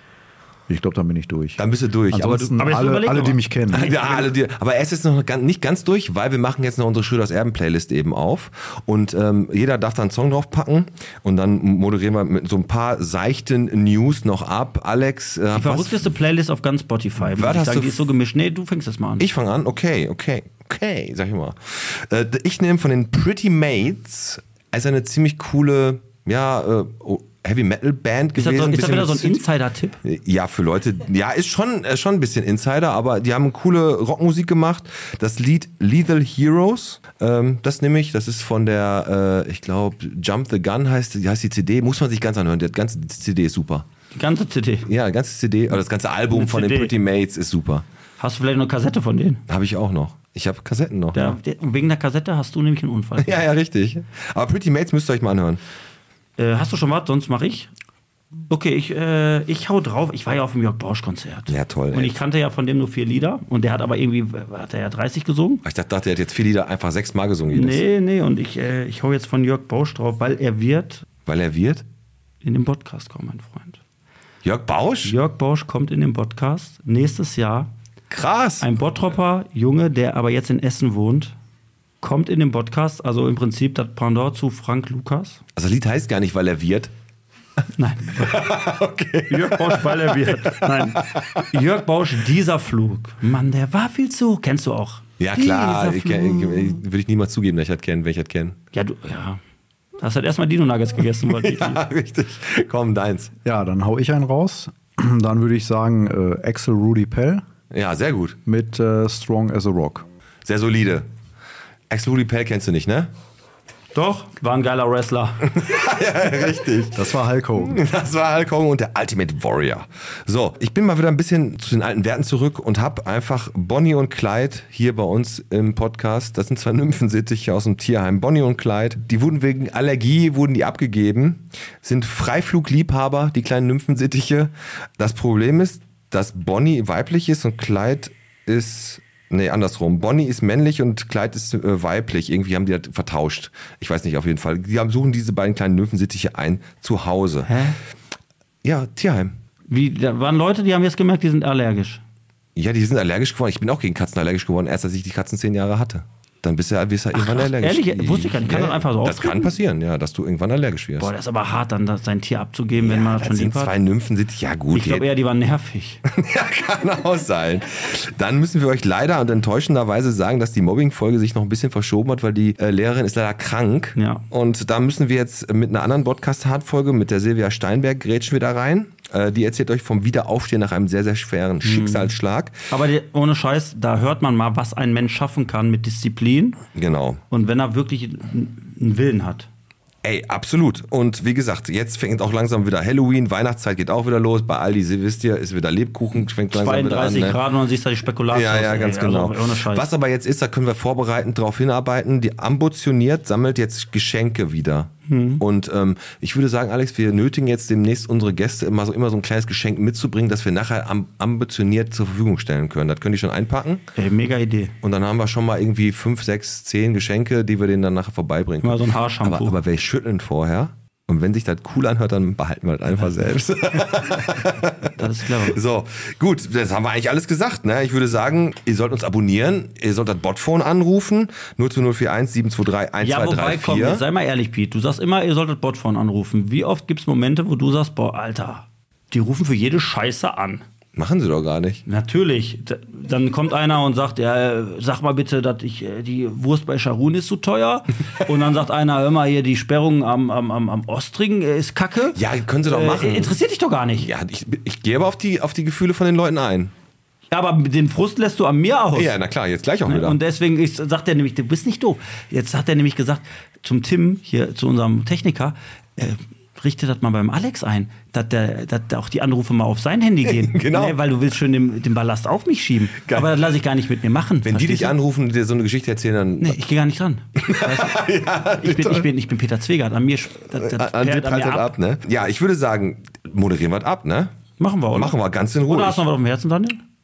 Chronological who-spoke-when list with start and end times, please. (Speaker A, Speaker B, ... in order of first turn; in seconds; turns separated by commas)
Speaker A: 0.7-1.6, Speaker B: 1.6-2.8, Speaker A: 2.1-3.9, Speaker C: 2.6-4.3, Speaker B: 3.7-16.1, Speaker C: 15.5-19.3, Speaker B: 17.2-18.0, Speaker B: 19.2-29.4, Speaker C: 28.3-30.0, Speaker B: 30.0-43.9, Speaker C: 44.1-44.9, Speaker B: 44.8-47.8, Speaker C: 46.3-46.9, Speaker C: 48.2-49.4, Speaker B: 49.5-51.4, Speaker C: 51.1-53.4, Speaker B: 53.2-55.6, Speaker C: 56.4-57.7, Speaker C: 58.5-65.6, Speaker B: 61.5-62.2, Speaker B: 65.6-67.8, Speaker C: 67.5-71.0, Speaker B: 71.2-71.8, Speaker C: 72.4-73.8, Speaker B: 74.4-75.2, Speaker C: 75.0-77.7, Speaker B: 78.1-78.7, Speaker C: 78.6-81.3, Speaker C: 82.0-85.4, Speaker B: 85.5-86.9, Speaker C: 87.8-88.4, Speaker B: 88.1-91.5, Speaker C: 89.3-96.8, Speaker B: 95.2-98.6, Speaker C: 98.7-99.4, Speaker C: 100.0-101.8, Speaker B: 101.3-103.3, Speaker A: 103.4-107.4, Speaker B: 107.7-108.4, Speaker A: 108.5-110.0, Speaker B: 110.4-111.1, Speaker B: 111.9-113.1, Speaker C: 113.9-115.5, Speaker B: 115.4-147.5, Speaker A: 116.9-117.8, Speaker C: 147.4-147.8, Speaker B: 148.6-149.3, Speaker C: 149.7-152.0, Speaker B: 152.5-161.1, Speaker C: 157.1-159.5, Speaker C: 161.0-163.7, Speaker B: 162.8-165.1, Speaker C: 164.7-166.0, Speaker B: 166.1-182.7, Speaker C: 174.0-174.2, Speaker C: 181.6-182.1, Speaker C: 182.7-186.6, Speaker B: 186.7-187.2, Speaker C: 187.3-189.5, Speaker B: 190.0-197.4, Speaker C: 196.5-199.9, Speaker B: 198.3-213.9, Speaker C: 205.1-205.4, Speaker C: 213.9-214.7, Speaker B: 214.8-234.0, Speaker C: 218.6-219.6, Speaker C: 224.9-225.6, Speaker C: 233.0-240.6, Speaker B: 240.9-241.8, Speaker C: 241.8-254.1, Speaker B: 252.1-253.4, Speaker B: 254.0-256.7, Speaker C: 257.3-259.1, Speaker B: 258.9-260.2, Speaker C: 259.8-274.9, Speaker B: 270.2-271.0, Speaker B: 273.0-273.4, Speaker B: 274.4-276.6, Speaker C: 276.4-281.7, Speaker B: 277.4-279.1, Speaker B: 280.5-284.3, Speaker C: 284.6-286.8, Speaker B: 284.9-286.0